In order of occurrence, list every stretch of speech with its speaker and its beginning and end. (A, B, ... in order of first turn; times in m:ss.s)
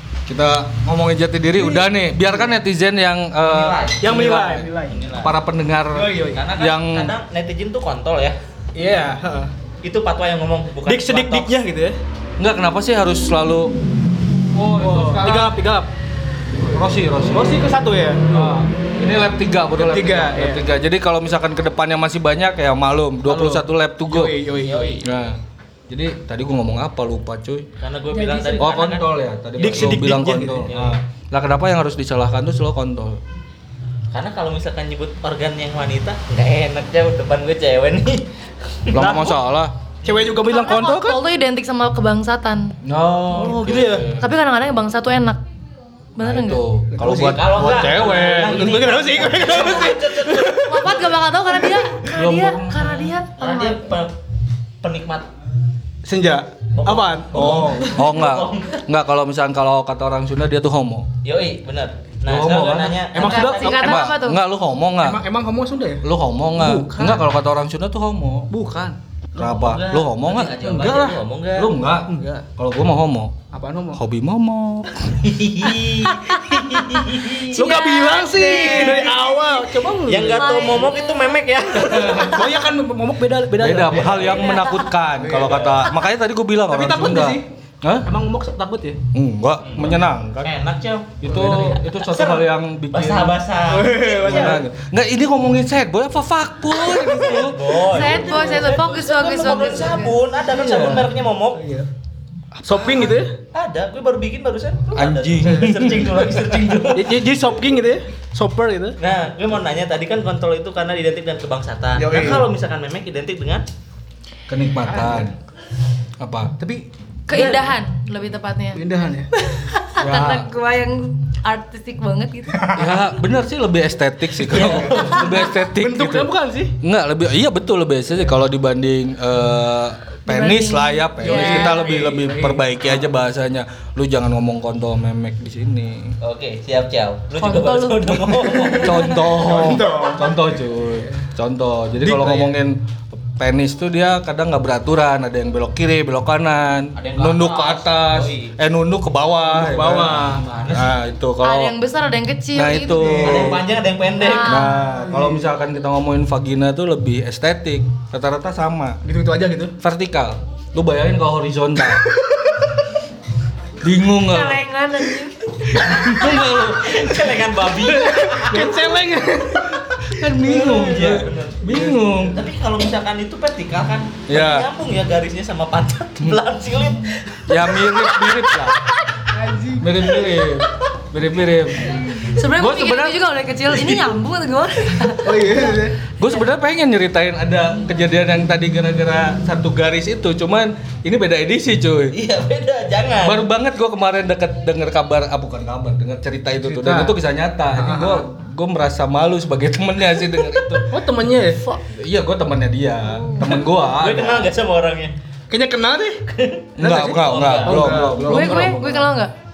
0:00.3-0:07.1 A
0:01.6-0:01.9 B
0:03.4-0:04.0 C
0:04.0-0:05.0 B
0:04.9-0:05.3 C
0:05.9-0:06.4 B
0:06.3-0:08.4 C
0:08.8-0:09.5 B
0:09.8-0:11.5 C
0:10.8-0:12.0 B
0:12.4-0:13.7 A
0:14.5-0:15.6 A
0:14.8-0:15.9 B
0:16.7-0:17.7 A
0:17.3-0:18.6 B
0:18.3-0:24.3 A
0:19.7-0:20.6 B
0:23.2-0:25.0 B
0:24.6-0:25.1 C
0:25.0-0:25.4 A
0:25.9-0:27.7 A
0:27.8-0:31.0 C
0:28.1-0:28.7 D
0:28.6-0:33.2 A
0:29.8-0:30.6 B
0:34.1-0:39.4 C
0:38.9-0:39.7 A
0:40.0-0:40.3 C
0:40.0-0:41.2 B
0:40.4-0:42.7 D
0:42.8-0:44.3 A
0:43.3-0:44.0 B
0:43.4-0:44.1 C
0:44.2-0:45.4 D
0:46.2-0:46.6 D
0:46.2-0:48.7 A
0:46.9-0:52.0 B
0:47.0-0:51.0 C
0:50.6-0:53.9 D
0:52.1-0:53.1 A
0:53.4-0:54.1 C
0:54.8-0:55.3 C
0:56.0-0:57.8 B
0:56.7-0:58.8 C
0:57.3-1:01.1 A
1:01.2-1:04.0 C
1:02.2-1:05.2 A
1:03.2-1:03.5 B
1:03.4-1:04.4 D
1:05.0-1:06.0 B
1:06.0-1:08.5 A
1:06.5-1:07.3 B
1:08.5-1:09.0 B
1:09.3-1:11.7 C
1:09.4-1:13.3 A
1:12.1-1:12.4 B
1:13.5-1:14.0 B
1:13.9-1:15.2 A
1:15.2-1:22.5 C
1:16.3-1:19.0 D
1:17.2-1:20.7 B
1:20.3-1:22.3 D
1:21.9-1:24.3 B
1:23.6-1:28.1 A
1:23.9-1:24.6 C
1:24.5-1:24.9 D
1:25.2-1:25.7 B
1:25.3-1:25.9 C
1:26.7-1:27.4 B
1:28.0-1:29.0 B
1:29.1-1:30.5 A
1:29.6-1:34.6 C
1:31.2-1:33.4 A
1:31.3-1:31.8 B
1:33.6-1:34.6 B
1:34.2-1:37.8 A
1:36.9-1:41.6 C
1:37.8-1:40.2 D
1:38.1-1:38.6 B
1:40.5-1:41.1 A
1:41.6-1:41.9 B
1:42.5-1:43.2 A
1:42.7-1:43.3 B
1:43.5-1:47.2 C
1:44.9-1:46.7 A
1:45.4-1:45.7 B
1:46.9-1:49.0 B
1:49.0-1:53.6 C
1:52.0-1:52.5 B
1:54.5-1:55.3 A
1:54.8-1:55.3 B
1:56.2-1:56.5 A
1:56.6-1:57.7 B
1:57.3-1:58.8 D
1:58.7-1:59.3 B
1:59.6-2:02.8 D
2:00.0-2:00.5 A
2:02.5-2:03.0 B
2:02.7-2:06.3 A
2:04.5-2:05.4 C
2:04.5-2:06.7 B
2:06.8-2:16.2 A
2:10.3-2:11.8 D
2:11.2-2:13.0 B
2:16.2-2:19.2 C
2:17.4-2:18.2 D
2:18.4-2:21.2 B
2:18.8-2:31.7 A
2:22.0-2:22.5 B
2:27.0-2:28.6 C
2:29.5-2:30.4 B
2:30.0-2:31.0 C
2:31.4-2:33.2 D
2:32.5-2:33.6 A
2:33.0-2:33.7 B
2:33.1-2:34.7 C
2:34.2-2:34.9 D
2:34.4-2:39.0 A
2:34.8-2:35.5 B
2:39.0-2:39.7 B
2:39.8-2:42.0 A
2:41.9-2:42.8 B
2:43.8-2:44.6 A
2:44.2-2:46.3 D
2:45.7-2:47.0 A
2:46.0-2:48.9 C
2:47.1-2:50.9 B
2:50.0-2:52.4 A
2:50.4-2:51.6 C
2:51.6-2:52.2 B
2:52.3-2:58.6 C
2:54.3-2:54.7 A
2:57.5-2:58.8 A
2:59.3-2:59.9 B
2:59.8-3:03.2 A
3:02.3-3:05.8 D
3:05.2-3:06.0 B
3:06.2-3:12.1 A
3:12.1-3:13.4 C
3:13.2-3:20.8 A
3:16.6-3:17.1 B
3:17.7-3:18.2 B
3:20.4-3:20.8 C
3:20.9-3:21.6 B
3:21.8-3:24.5 A
3:23.8-3:25.1 C
3:25.5-3:26.2 B
3:26.3-3:28.0 C
3:26.8-3:29.1 A
3:26.8-3:28.9 B
3:28.2-3:29.3 D